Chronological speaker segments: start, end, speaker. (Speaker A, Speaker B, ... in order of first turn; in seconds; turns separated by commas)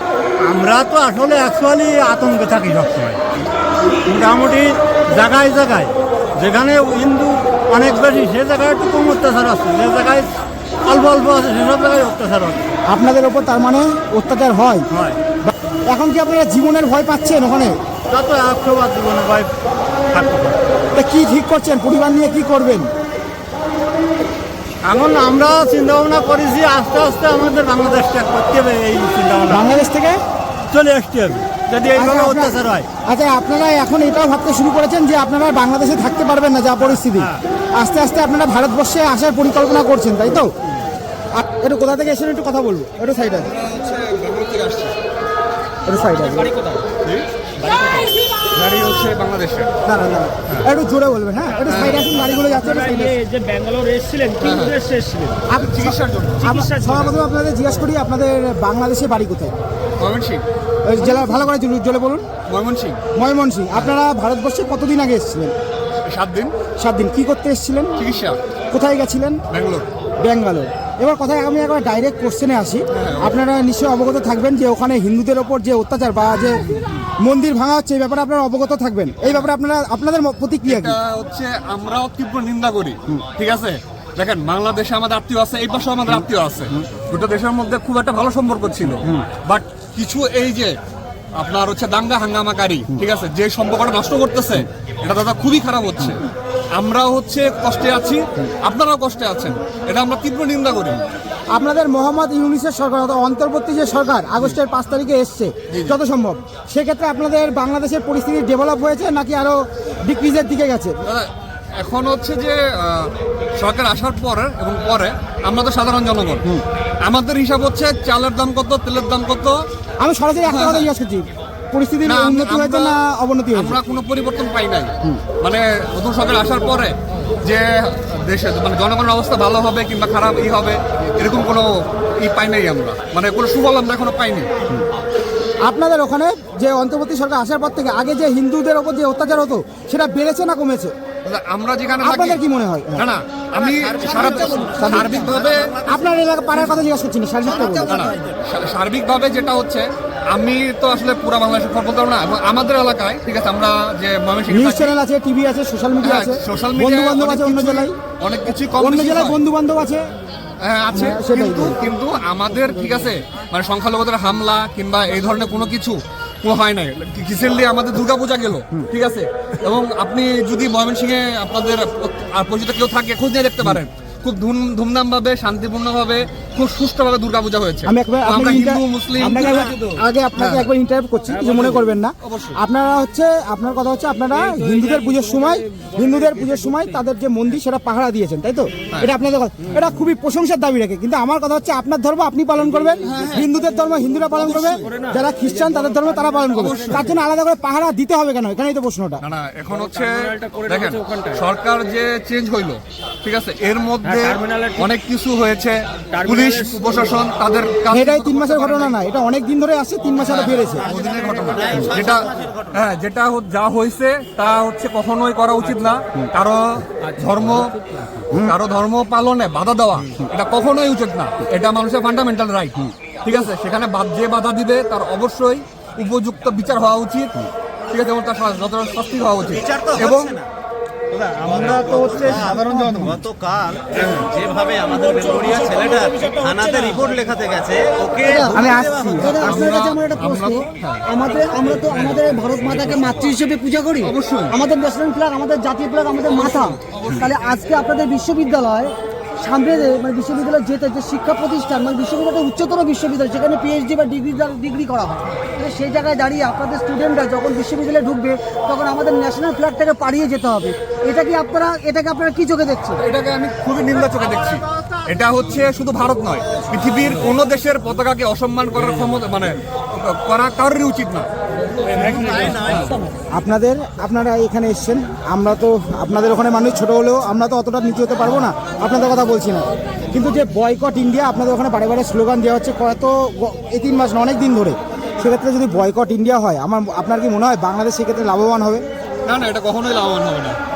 Speaker A: 0.4-3.2, Speaker A: 4.0-10.3, Speaker A: 10.8-12.8, Speaker B: 12.9-14.8, Speaker A: 14.9-15.2, Speaker B: 15.4-17.8, Speaker A: 18.1-19.5, Speaker A: 20.1-20.6, Speaker B: 20.9-22.9, Speaker A: 24.8-29.7, Speaker B: 29.5-30.2, Speaker A: 30.7-32.9, Speaker B: 31.9-32.5, Speaker B: 33.1-40.5, Speaker A: 36.8-37.4, Speaker B: 41.3-43.5, Speaker C: 43.4-44.9, Speaker B: 45.9-46.6, Speaker C: 47.0-49.7, Speaker B: 49.8-53.2, Speaker C: 51.6-52.1, Speaker D: 52.2-55.3, Speaker C: 54.4-54.8, Speaker B: 55.5-59.6, Speaker C: 55.5-56.6, Speaker D: 56.6-57.0, Speaker C: 60.0-60.4, Speaker B: 60.8-62.2, Speaker C: 62.5-63.0, Speaker B: 63.1-65.5, Speaker C: 66.0-66.5, Speaker B: 66.8-68.0, Speaker C: 68.0-68.4, Speaker B: 68.7-69.4, Speaker C: 69.5-69.8, Speaker B: 70.2-76.6, Speaker C: 72.9-73.4, Speaker B: 77.2-81.0, Speaker C: 79.2-79.5, Speaker C: 80.6-90.7, Speaker C: 91.4-101.0, Speaker B: 101.5-111.0, Speaker C: 105.7-106.0, Speaker C: 111.0-116.5, Speaker C: 117.0-119.5, Speaker B: 120.0-123.8, Speaker C: 120.5-120.9, Speaker C: 122.0-123.0, Speaker C: 123.5-134.5, Speaker B: 135.6-140.9, Speaker C: 141.2-142.4, Speaker B: 142.0-143.1, Speaker C: 142.9-145.7, Speaker E: 143.6-146.1, Speaker B: 144.7-145.3, Speaker B: 145.8-148.1, Speaker E: 147.4-148.3, Speaker C: 147.8-154.9, Speaker B: 154.5-157.9, Speaker C: 156.0-159.4, Speaker B: 158.8-160.0, Speaker C: 160.6-179.7, Speaker B: 160.9-161.8, Speaker B: 177.8-199.2, Speaker C: 180.3-180.7, Speaker C: 182.2-182.6, Speaker D: 184.4-187.0, Speaker C: 193.0-193.5, Speaker C: 194.4-194.8, Speaker D: 194.8-197.1, Speaker C: 196.5-197.1, Speaker C: 199.2-208.9, Speaker D: 199.7-201.4, Speaker D: 204.0-204.9, Speaker D: 206.1-207.0, Speaker B: 207.9-210.9, Speaker C: 210.2-217.7, Speaker E: 210.8-212.8, Speaker A: 211.1-212.2, Speaker C: 218.3-230.3, Speaker E: 229.5-230.4, Speaker E: 231.1-239.4, Speaker A: 231.2-233.1, Speaker F: 232.5-233.1, Speaker C: 234.0-234.3, Speaker D: 235.1-237.0, Speaker F: 238.2-263.0, Speaker B: 238.5-239.7, Speaker C: 239.4-241.1, Speaker C: 241.7-243.3, Speaker C: 244.0-244.6, Speaker C: 246.3-247.5, Speaker C: 263.0-271.3, Speaker A: 271.9-273.0, Speaker E: 272.0-272.6, Speaker C: 272.6-273.0, Speaker B: 273.3-288.8, Speaker C: 289.2-290.6